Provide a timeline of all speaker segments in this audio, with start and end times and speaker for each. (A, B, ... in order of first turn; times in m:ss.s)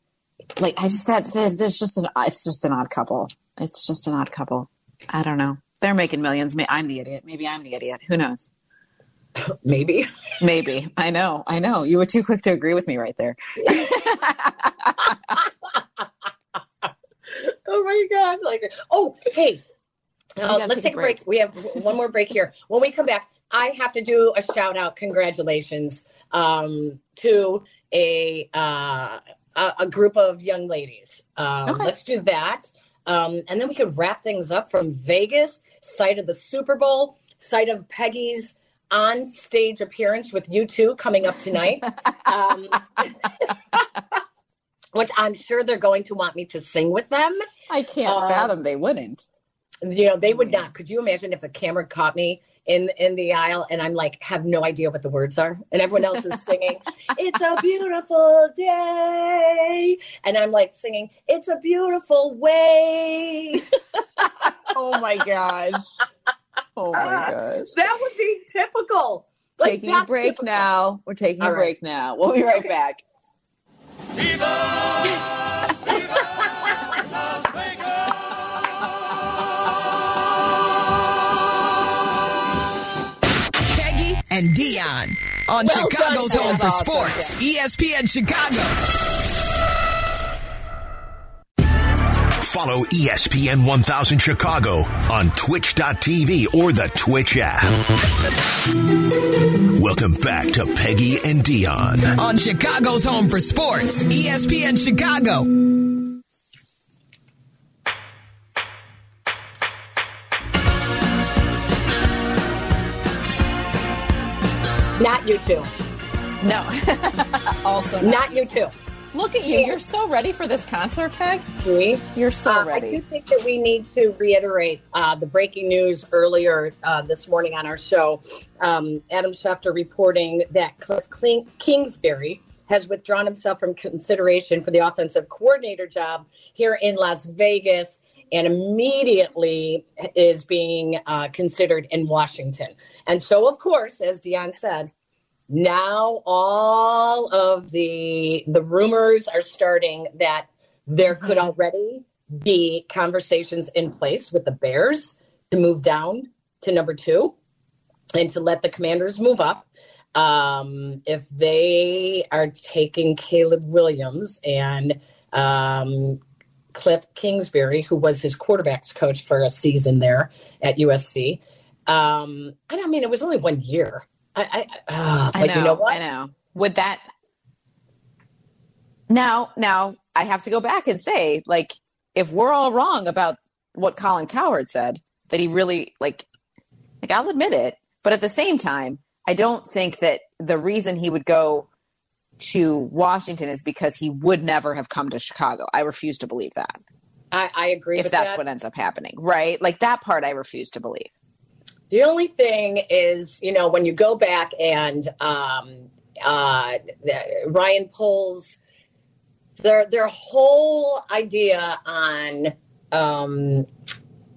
0:00.6-0:08.5 A
0:09.4-0:10.1 B
0:10.4-0:15.4 A
0:13.6-0:14.0 B
0:17.3-0:19.6 B
0:20.4-0:43.8 B
0:20.4-0:21.2 A
0:44.9-0:47.4 B
0:47.7-0:49.2 A
0:48.0-0:48.5 B
0:49.8-1:04.5 B
1:04.4-1:05.9 A
1:06.8-1:07.7 A
1:06.9-1:10.6 B
1:09.6-1:13.0 A
1:11.4-1:11.7 B
1:23.6-1:28.7 C
1:25.6-1:27.3 A
1:25.6-1:27.3 B
1:32.4-1:37.8 D
1:39.7-1:42.1 D
1:42.2-1:45.5 C
1:55.0-1:55.7 B
1:56.4-1:58.6 A
1:58.0-1:58.7 B
1:59.1-2:01.5 A
1:59.5-1:59.8 B
2:01.6-2:24.9 B
2:02.1-2:03.0 A
2:25.5-2:37.3 B
2:31.1-2:31.4 A
2:38.1-2:46.2 B
2:46.7-2:56.0 B
2:55.3-2:57.0 A
2:59.1-3:06.2 A
3:07.0-3:11.7 A
3:12.4-3:16.8 A
3:17.3-3:18.4 B
3:18.0-3:21.1 A
3:21.9-3:28.6 B
3:29.6-3:33.7 B